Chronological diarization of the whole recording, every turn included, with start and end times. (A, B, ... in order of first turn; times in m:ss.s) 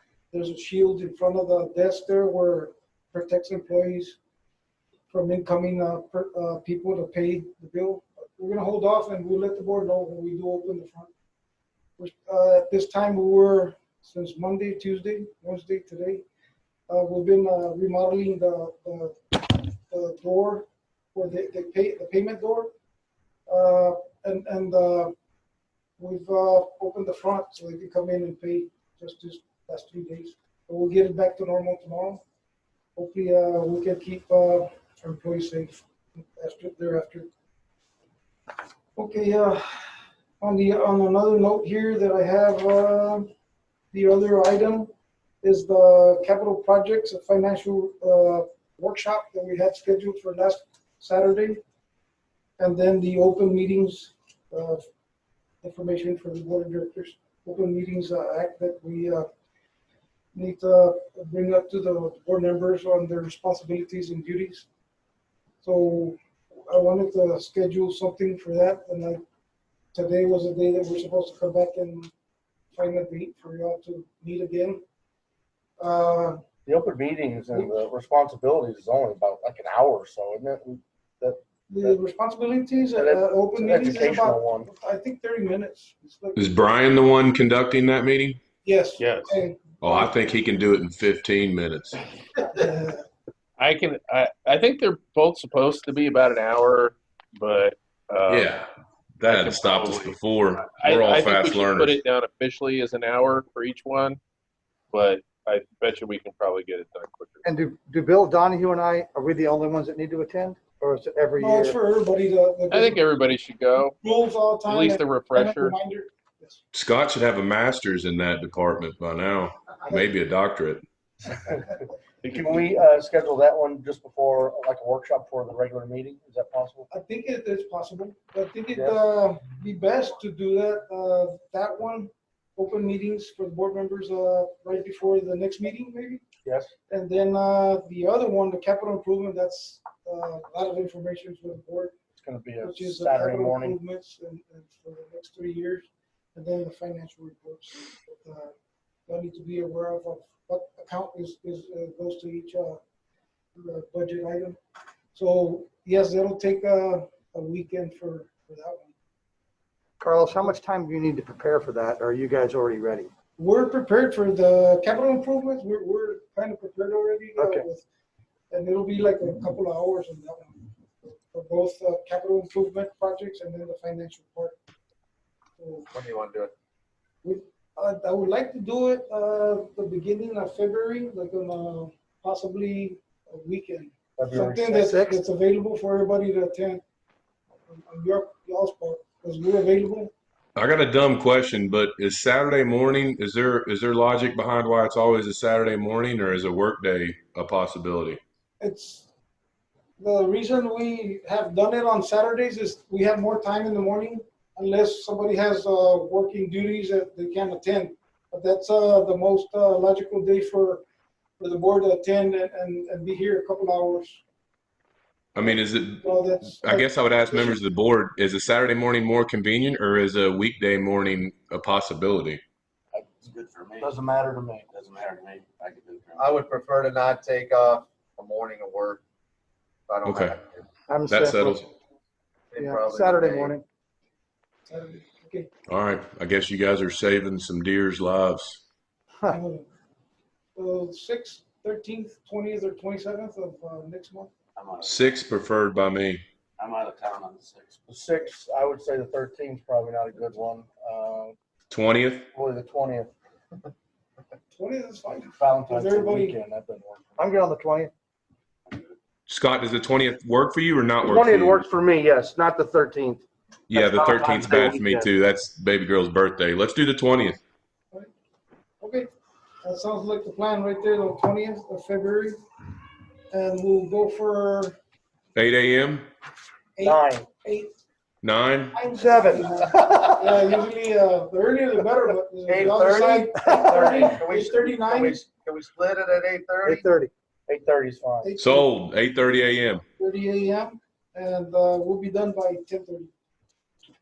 0:00.3-0:04.2 A
0:05.1-0:11.1 A
0:12.0-0:16.2 A
0:16.9-0:22.7 A
0:23.5-0:25.1 A
0:26.0-0:32.2 A
0:33.0-0:37.3 A
0:39.0-0:43.3 A
0:43.9-0:44.9 A
0:45.4-0:51.6 A
0:52.6-0:54.8 A
0:55.6-0:59.3 A
1:00.3-1:04.6 A
1:05.6-1:09.2 A
1:09.9-1:12.1 A
1:12.7-1:14.8 A
1:15.8-1:16.4 A
1:16.6-1:22.0 B
1:21.7-1:26.4 A
1:23.0-1:24.7 B
1:26.3-1:28.4 C
1:28.6-1:30.1 A
1:29.0-1:29.4 D
1:29.8-1:32.0 C
1:32.4-1:33.0 A
1:33.6-1:38.6 D
1:38.3-1:42.0 C
1:39.3-1:44.2 D
1:44.9-1:47.4 D
1:47.4-1:51.8 E
1:51.4-1:53.0 A
1:52.7-1:54.0 D
1:54.0-1:56.6 A
1:54.6-1:55.8 D
1:56.7-2:00.8 C
2:01.4-2:01.6 B
2:02.2-2:06.9 B
2:06.9-2:16.2 A
2:08.7-2:09.0 B
2:16.4-2:16.7 B
2:16.9-2:21.9 A
2:22.2-2:23.8 B
2:22.6-2:28.5 A
2:29.1-2:32.8 A
2:33.5-2:34.6 A
2:35.1-2:38.9 A
2:40.0-2:43.1 E
2:43.4-2:47.8 A
2:47.4-2:47.6 E
2:48.5-2:54.6 A
2:55.6-2:55.9 A
2:55.9-2:56.5 F
2:57.2-3:06.8 A
3:04.2-3:04.8 B
3:04.6-3:05.2 E
3:07.7-3:10.1 A
3:10.6-3:18.2 C
3:18.6-3:19.1 A
3:20.0-3:30.8 A
3:31.4-3:34.2 A
3:35.3-3:42.4 C
3:35.4-3:37.6 A
3:42.9-3:43.9 G
3:43.8-3:44.7 B
3:44.7-3:46.3 G
3:46.2-3:49.0 F
3:49.9-3:50.6 F
3:50.0-3:50.4 C
3:50.9-3:51.6 E
3:51.1-3:51.6 C
3:52.5-3:53.5 F
3:52.5-3:53.6 E
3:54.7-3:55.5 A
3:55.7-3:58.6 C
3:59.3-3:59.6 A
4:00.6-4:04.3 A
4:04.6-4:05.0 G
4:04.8-4:06.2 C
4:06.6-4:07.8 G
4:07.9-4:11.4 B
4:11.7-4:12.2 C
4:12.3-4:13.1 B
4:14.5-4:16.4 A
4:15.4-4:17.2 B
4:17.2-4:17.9 E
4:19.3-4:21.6 C
4:21.0-4:23.2 B
4:23.7-4:27.4 C
4:23.8-4:25.0 B
4:28.8-4:29.1 A
4:29.6-4:32.4 A
4:33.3-4:34.8 A
4:35.3-4:36.0 C
4:36.8-4:37.8 A
4:36.8-4:37.3 B
4:38.2-4:38.8 C
4:38.7-4:45.2 A
4:38.9-4:40.1 E
4:39.1-4:39.5 B
4:42.5-4:45.3 B
4:43.3-4:44.0 E
4:45.3-4:46.9 F
4:46.6-4:47.1 E
4:47.5-4:48.3 B
4:48.2-4:48.7 A
4:48.4-4:49.8 C
4:50.0-4:53.1 A